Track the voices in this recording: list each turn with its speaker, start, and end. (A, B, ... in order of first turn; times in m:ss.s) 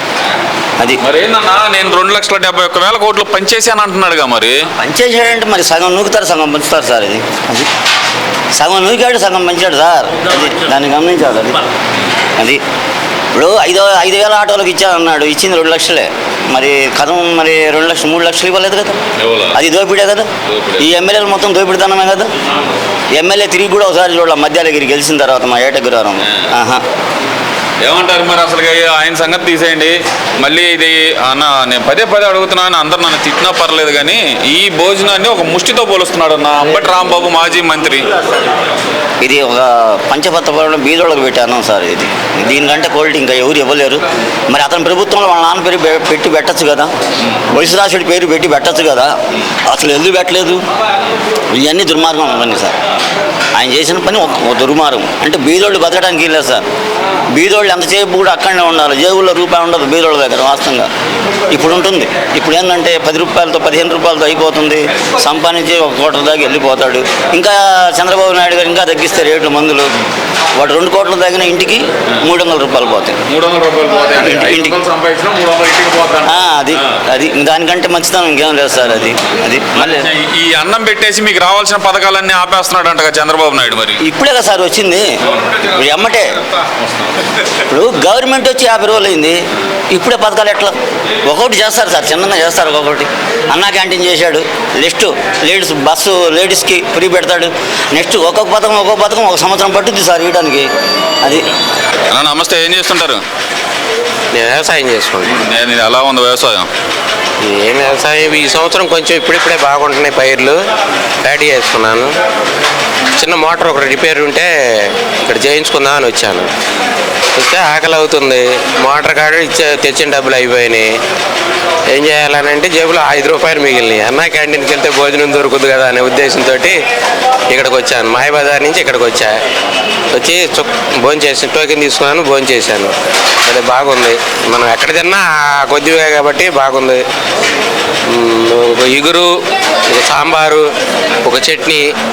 0:01.0-0:04.7 A
0:04.8-0:07.7 B
0:08.5-0:11.6 B
0:12.4-0:12.6 B
0:13.3-0:19.0 B
0:19.2-0:19.6 A
0:19.5-0:22.3 B
0:20.4-0:20.9 A
0:23.1-0:26.8 B
0:27.8-0:38.1 A
0:39.2-0:46.9 B
0:47.5-0:50.6 B
0:51.5-0:52.8 B
0:53.5-0:56.6 B
0:57.3-1:00.9 B
1:01.5-1:09.9 B
1:10.5-1:13.2 B
1:13.3-1:17.0 A
1:14.1-1:14.8 B
1:16.2-1:20.1 B
1:19.7-1:24.0 A
1:24.0-1:26.4 B
1:25.3-1:25.7 A
1:26.5-1:27.1 A
1:27.7-1:40.7 B
1:42.1-1:43.2 A
1:44.3-1:45.4 C
1:45.2-1:46.7 A
1:47.4-1:50.6 C
1:51.2-1:52.1 C
1:53.2-1:56.5 C
1:57.4-2:00.9 C
2:01.9-2:06.8 C
2:07.5-2:09.3 C
2:10.1-2:12.9 C
2:13.4-2:17.0 C
2:18.1-2:19.3 C
2:19.9-2:20.7 C
2:21.2-2:21.8 C